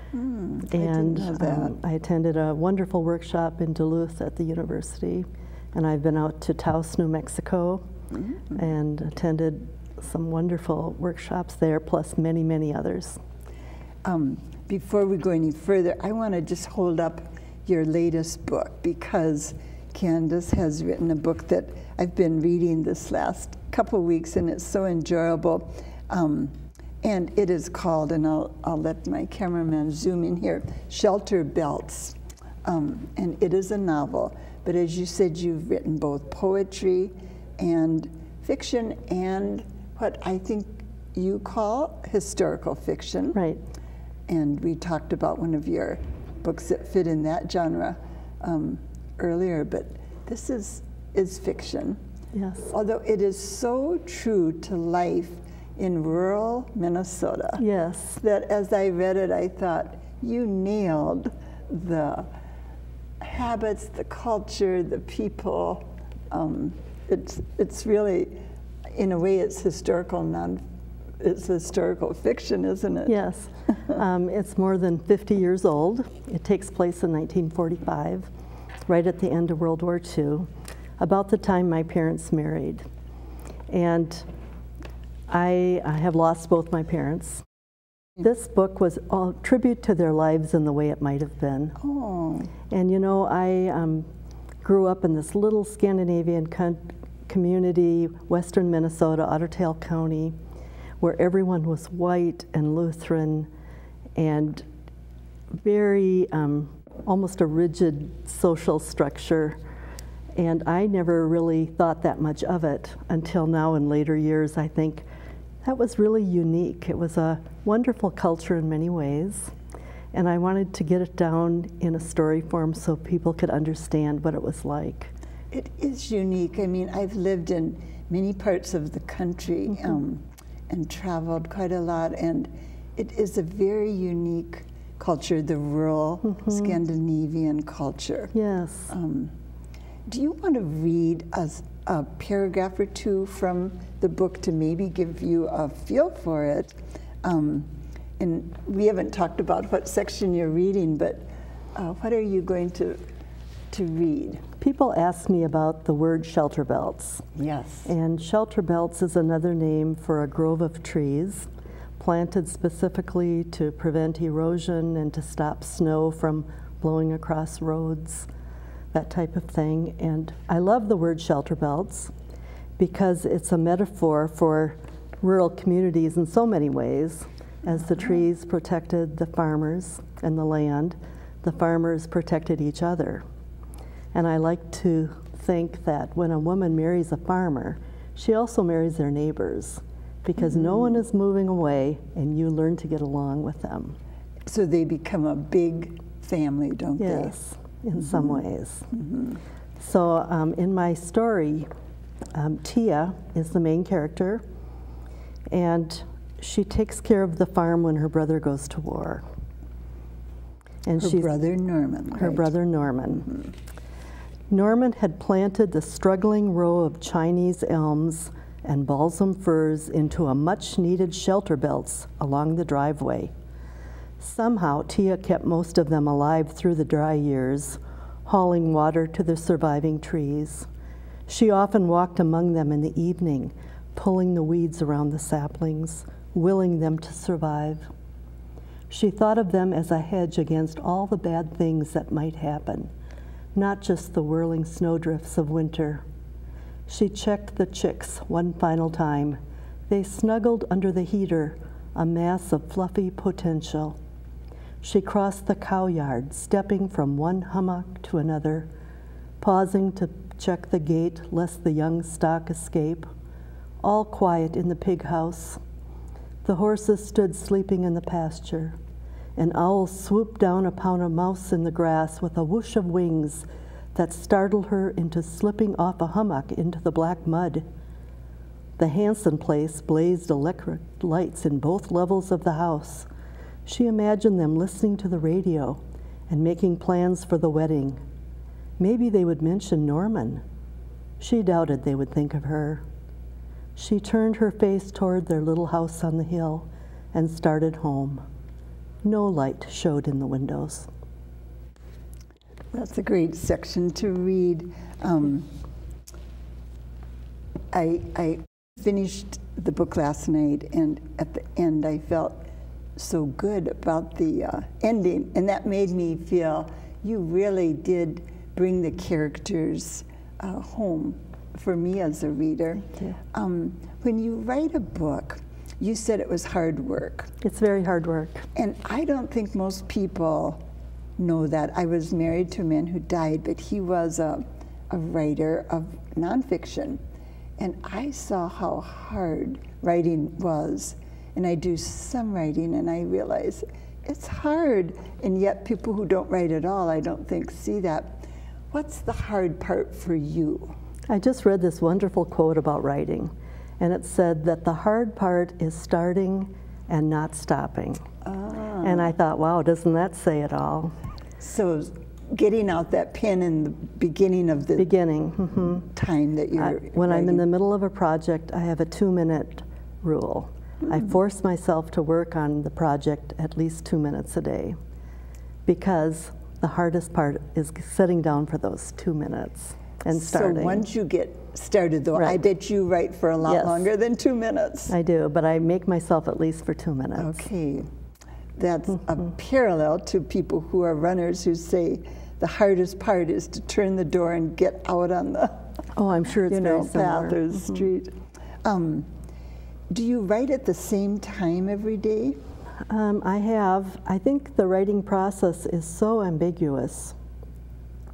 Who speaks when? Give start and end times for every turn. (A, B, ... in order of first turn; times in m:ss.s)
0:00.1-0:01.8 A
0:00.7-0:07.9 B
0:08.1-0:08.4 A
0:08.5-0:13.2 B
0:14.0-0:43.4 A
0:43.3-0:43.6 B
0:44.3-0:52.0 A
0:52.4-0:52.7 B
0:52.6-0:57.6 A
0:57.6-0:58.2 B
0:58.2-1:02.3 A
1:03.2-1:08.4 A
1:08.9-1:10.6 A
1:11.2-1:13.2 A
1:13.1-1:18.3 B
1:18.9-1:22.8 B
1:23.7-1:24.3 B
1:25.3-1:27.4 B
1:28.2-1:31.8 B
1:31.8-1:32.5 A
1:32.7-1:34.1 B
1:34.6-1:40.4 B
1:41.0-1:43.5 B
1:44.2-1:44.7 B
1:45.6-1:49.6 B
1:50.4-1:55.0 B
1:55.6-1:59.5 B
2:00.1-2:05.1 B
2:05.5-2:18.3 A
2:16.3-2:16.7 B
2:18.3-2:18.9 B
2:18.9-2:19.3 A
2:20.1-2:33.0 A
2:33.7-2:34.4 A
2:34.6-2:37.3 B
2:37.4-2:37.9 A
2:37.9-2:48.3 B
2:48.9-2:52.1 B
2:52.8-3:03.2 B
3:04.1-3:14.0 B
3:10.5-3:10.9 A
3:14.5-3:17.4 A
3:17.0-3:18.9 B
3:18.0-3:19.4 A
3:19.8-3:21.7 B
3:22.3-3:24.4 B
3:25.5-3:29.2 B
3:30.8-3:31.3 B
3:31.0-3:32.5 A
3:32.1-3:33.3 B
3:34.5-3:43.3 B
3:44.2-3:50.7 B
3:51.3-3:57.9 B
3:58.9-4:02.9 B
4:03.6-4:06.0 B
4:06.9-4:14.0 B
4:14.8-4:18.7 B
4:19.4-4:23.1 B
4:23.8-4:25.6 B
4:26.4-4:28.8 B
4:29.4-4:37.6 B
4:38.8-4:43.1 B
4:43.7-4:48.0 B
4:48.8-4:50.4 B
4:51.2-4:52.8 B
4:53.8-4:58.2 B
4:59.0-5:00.9 B
5:02.7-5:05.5 A
5:07.7-5:12.4 A
5:13.0-5:27.3 A
5:22.9-5:23.2 B
5:27.4-5:28.5 B
5:28.6-5:30.6 A
5:31.2-5:37.0 A
5:37.6-5:50.8 A
5:51.1-5:58.0 B
5:58.2-5:59.1 A
5:58.8-6:01.0 B
6:01.4-6:04.9 A
6:04.8-6:05.9 B
6:05.7-6:07.4 A
6:06.6-6:14.8 B
6:15.7-6:20.9 B
6:20.1-6:24.9 A
6:22.2-6:22.4 B
6:23.4-6:23.9 B
6:24.9-6:27.4 B
6:27.2-6:27.9 A
6:28.6-6:35.7 A
6:36.0-6:37.8 B
6:36.5-6:39.1 A
6:39.9-6:42.4 A
6:42.9-6:47.2 B